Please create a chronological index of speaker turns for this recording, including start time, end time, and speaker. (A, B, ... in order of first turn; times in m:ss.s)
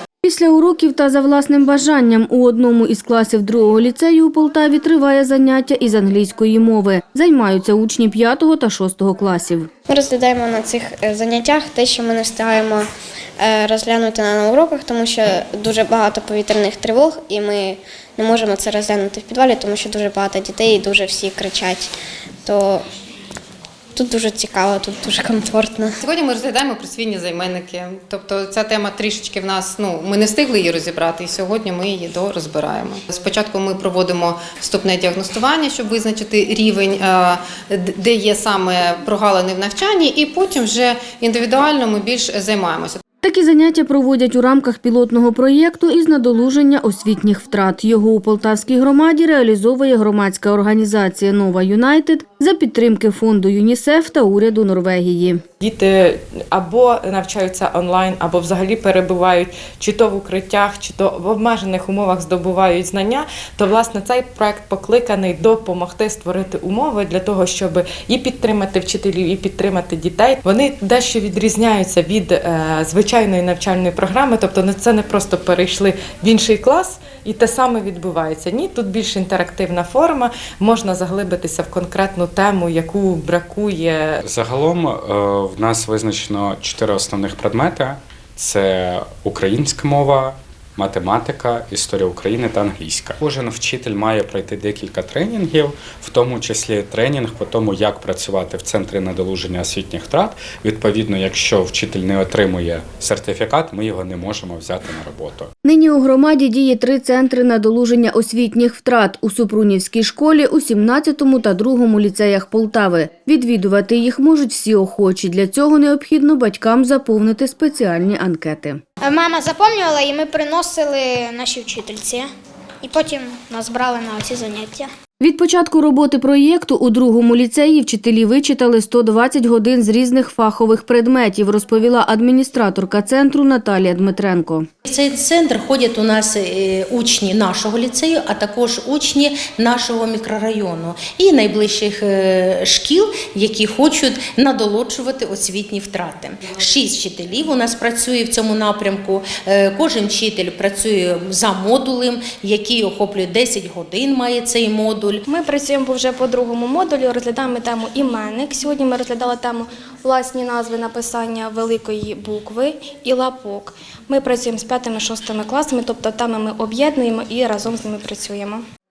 0:00.2-0:09.7 A
0:09.9-0:12.9 B
0:13.4-0:21.9 B
0:22.4-0:22.8 B
0:24.0-0:26.0 B
0:26.0-0:43.0 C
0:43.2-0:55.4 A
0:55.6-1:24.2 D
1:24.2-1:45.5 E
1:45.6-1:58.8 A
1:59.0-2:02.3 F
2:02.8-2:04.9 F
2:05.2-2:14.7 A
2:14.8-2:35.2 G
2:35.3-2:48.6 H